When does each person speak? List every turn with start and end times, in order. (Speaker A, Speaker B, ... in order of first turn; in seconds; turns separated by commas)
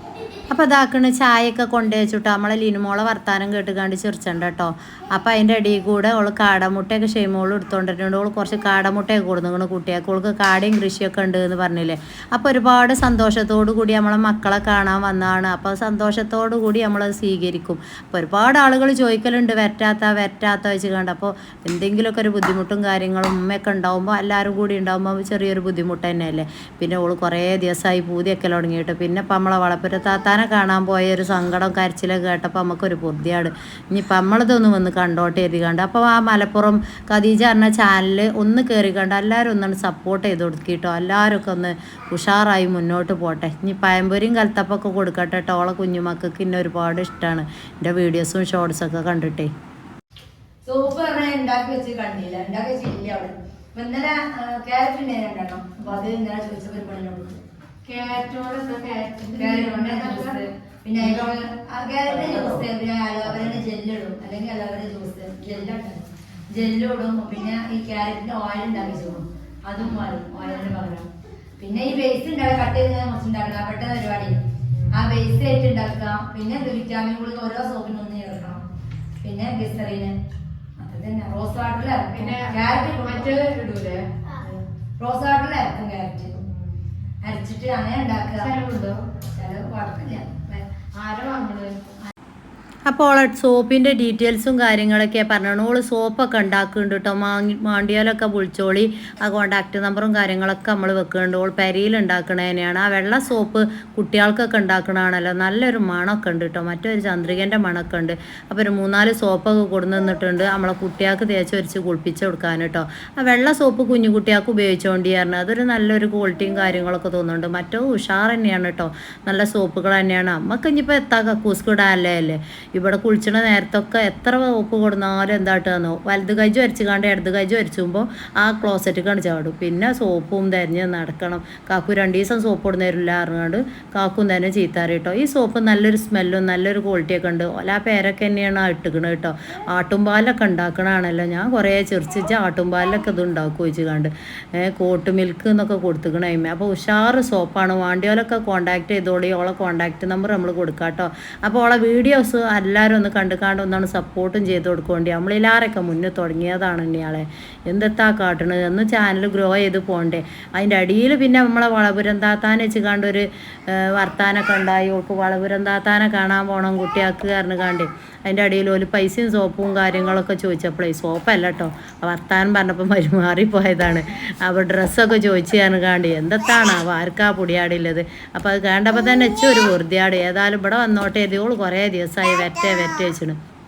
Speaker A: 0.5-49.5, Speaker B: 50.6-57.4, Speaker C: 57.9-60.4, Speaker B: 59.4-74.3, Speaker B: 74.9-78.6, Speaker B: 79.2-80.1, Speaker B: 80.8-83.3, Speaker C: 82.1-84.6, Speaker B: 85.0-86.4, Speaker C: 86.5-86.8, Speaker B: 87.2-88.5, Speaker C: 88.4-89.0, Speaker B: 89.3-90.6, Speaker C: 90.9-92.0, Speaker A: 92.9-183.4